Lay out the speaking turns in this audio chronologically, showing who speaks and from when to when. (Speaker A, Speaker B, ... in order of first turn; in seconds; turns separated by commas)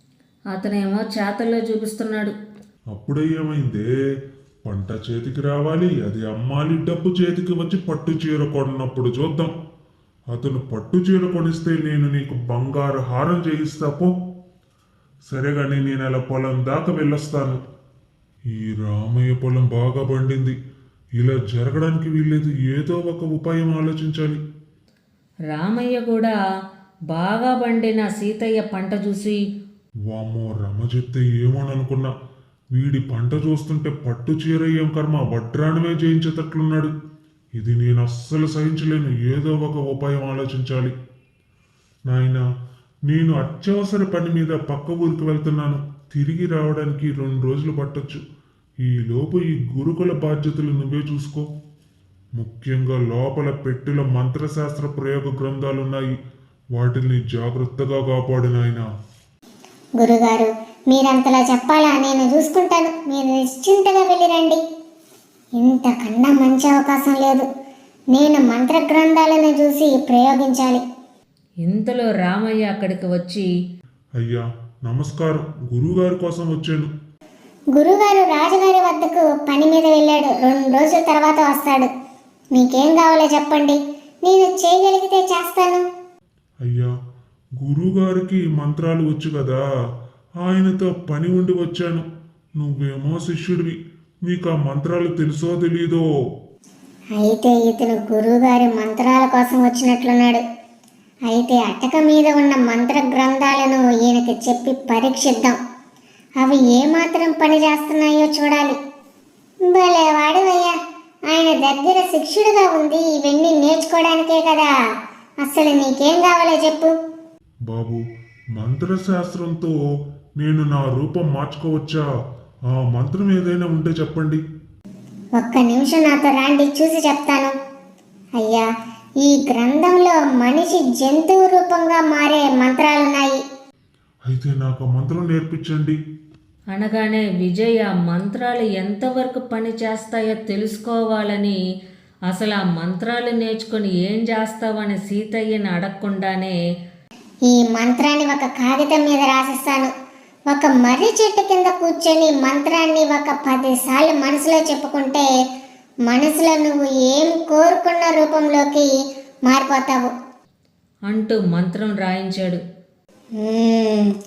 Speaker A: 0.5-2.4, Speaker B: 2.9-3.9, Speaker B: 4.7-9.5, Speaker B: 10.3-14.1, Speaker B: 15.3-17.6, Speaker B: 18.6-20.6, Speaker B: 21.2-24.4, Speaker A: 25.5-26.4, Speaker A: 27.1-29.4, Speaker B: 30.1-32.1, Speaker B: 32.7-36.9, Speaker B: 37.6-40.9, Speaker B: 42.1-42.4, Speaker B: 43.1-48.2, Speaker B: 48.8-51.5, Speaker B: 52.4-56.1, Speaker B: 56.8-58.9, Speaker C: 60.0-64.6, Speaker C: 65.6-67.5, Speaker C: 68.1-70.8, Speaker A: 71.6-73.5, Speaker B: 74.2-76.9, Speaker C: 77.7-81.9, Speaker C: 82.5-85.8, Speaker B: 86.6-86.9, Speaker B: 87.6-89.6, Speaker B: 90.4-96.0, Speaker C: 97.2-100.4, Speaker C: 101.3-105.6, Speaker C: 106.4-108.8, Speaker C: 109.7-110.7, Speaker C: 111.3-114.7, Speaker C: 115.4-116.9, Speaker B: 117.7-118.0, Speaker B: 118.5-119.7, Speaker B: 120.4-122.0, Speaker B: 122.7-124.4, Speaker C: 125.4-127.5, Speaker C: 128.4-128.7, Speaker C: 129.2-133.4, Speaker B: 134.3-136.0, Speaker A: 136.7-141.6, Speaker A: 142.3-146.6, Speaker C: 147.5-149.9, Speaker C: 150.5-155.3, Speaker C: 156.1-158.9, Speaker C: 159.5-160.1, Speaker A: 161.1-162.6, Speaker C: 163.4-164.1